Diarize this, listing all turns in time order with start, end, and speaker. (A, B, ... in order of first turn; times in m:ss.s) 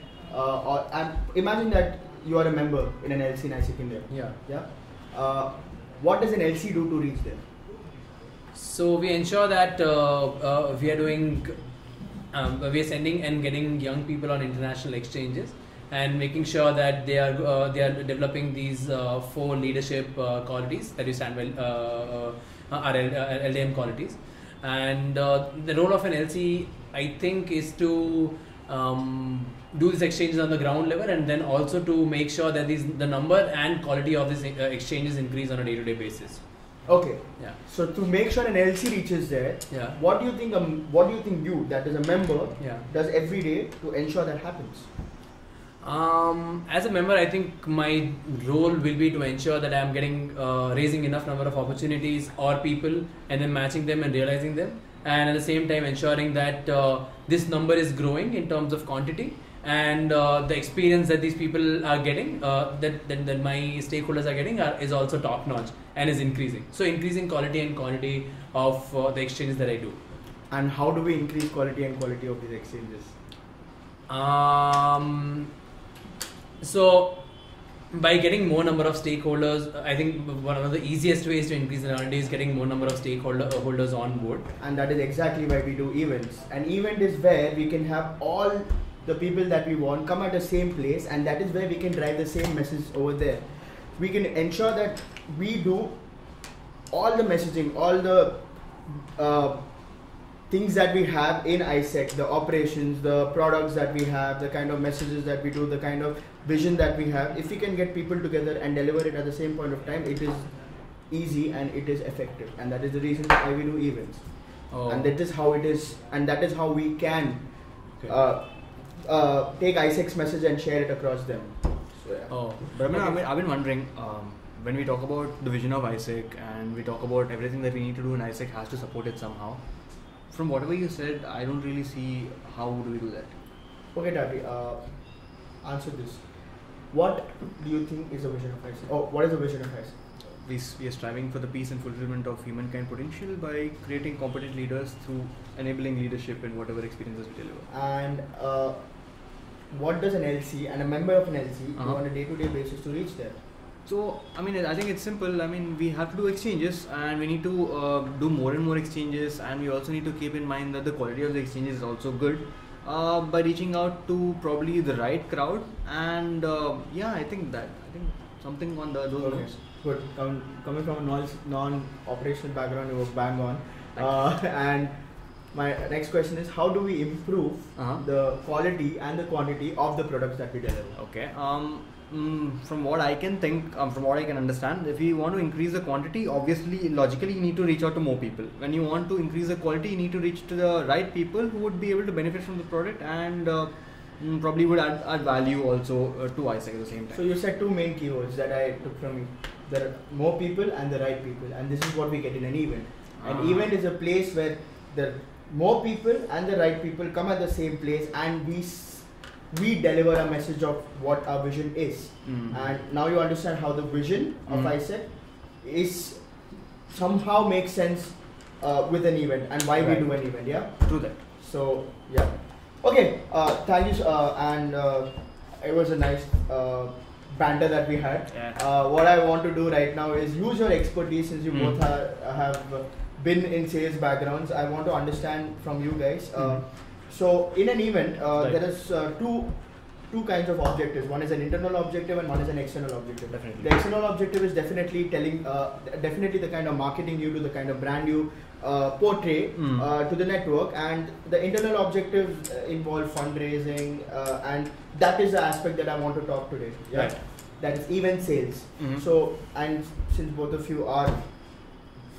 0:00.3-0:07.4 A
0:04.1-0:04.4 B
0:08.5-0:11.6 B
0:12.3-0:36.4 B
0:36.8-0:44.9 A
0:39.7-0:40.0 B
0:42.6-0:42.8 B
0:45.8-1:10.0 B
1:10.5-1:13.2 A
1:14.1-1:15.5 B
1:16.6-1:17.2 B
1:17.9-1:24.5 B
1:24.6-1:50.5 A
1:51.0-2:02.7 A
1:54.7-1:55.1 B
2:02.3-2:03.2 B
2:02.7-2:13.4 C
2:13.9-2:20.0 A
2:20.2-2:27.7 C
2:27.7-2:33.4 A
2:33.8-2:49.5 C
2:49.2-3:01.0 A
2:53.9-2:54.2 C
2:57.8-2:58.0 C
3:00.9-3:17.2 C
3:17.1-4:21.8 A
3:23.2-3:23.7 C
3:32.2-3:32.7 C
3:34.5-3:34.7 C
3:39.8-3:41.2 C
3:48.3-3:48.6 C
3:51.5-3:51.8 C
3:56.4-3:56.6 C
4:03.3-4:03.8 C
4:09.5-4:09.8 C
4:18.8-4:19.0 C